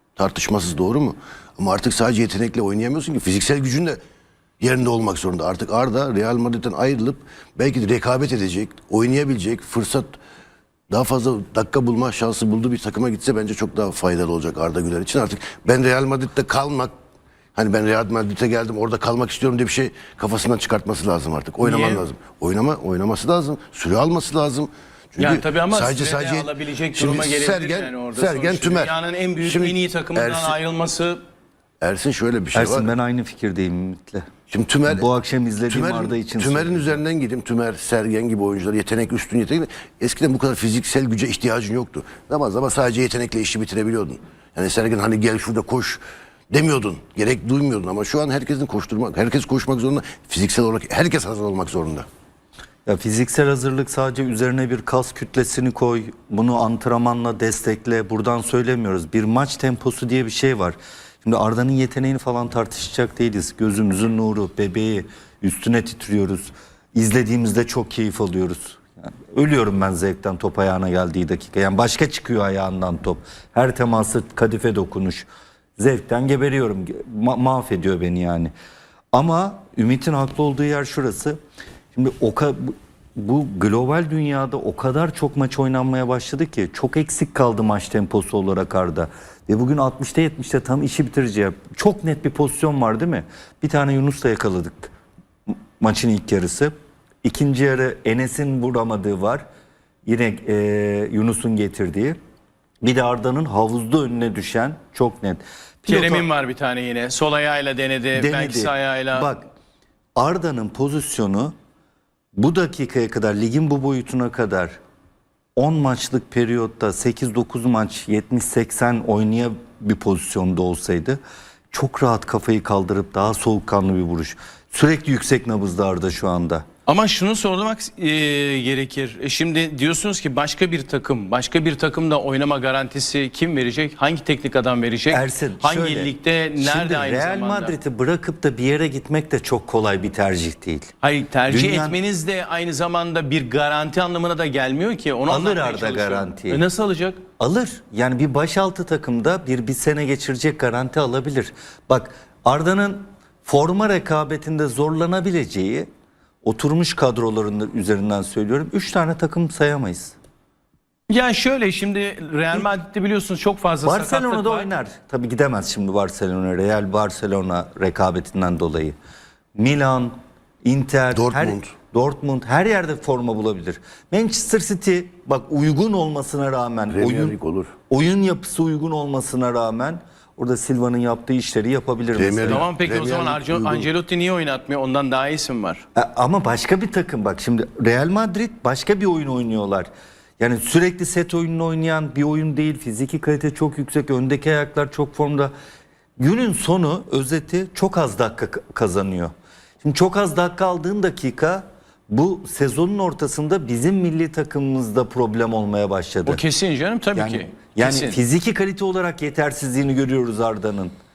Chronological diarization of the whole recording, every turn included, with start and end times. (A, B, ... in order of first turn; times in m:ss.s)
0:00.2-0:04.0 A
0:04.6-0:10.2 A
0:10.9-0:16.9 A
0:17.6-0:30.6 A
0:21.6-0:22.0 B
0:25.2-0:31.2 B
0:31.8-0:32.9 A
0:32.5-0:34.2 C
0:34.5-0:35.1 A
0:34.9-0:37.0 C
0:35.7-0:52.1 A
0:52.9-1:18.5 C
1:19.1-1:21.4 C
1:21.9-1:34.9 C
1:35.5-1:39.4 C
1:40.1-1:42.2 C
1:42.8-1:46.3 C
1:45.9-1:49.3 B
1:48.2-1:49.5 C
1:50.2-1:51.5 C
1:52.4-1:54.8 C
1:55.6-2:01.2 C
2:01.7-2:06.6 C
2:06.9-2:17.8 B
2:15.1-2:20.9 C
2:21.0-2:27.2 B
2:21.5-2:22.0 C
2:25.3-2:26.6 C
2:27.4-2:35.9 C
2:36.4-2:40.2 C
2:41.1-2:44.7 B
2:43.8-2:49.0 C
2:49.6-2:57.4 C
2:51.1-2:51.7 A
2:56.9-2:57.7 A
2:57.9-3:02.7 C
3:02.2-3:03.9 A
3:02.5-3:05.8 B
3:06.0-3:09.9 C
3:10.4-3:15.5 C
3:16.2-3:19.3 C
3:19.8-3:26.4 C
3:26.3-3:28.2 B
3:27.2-3:30.9 C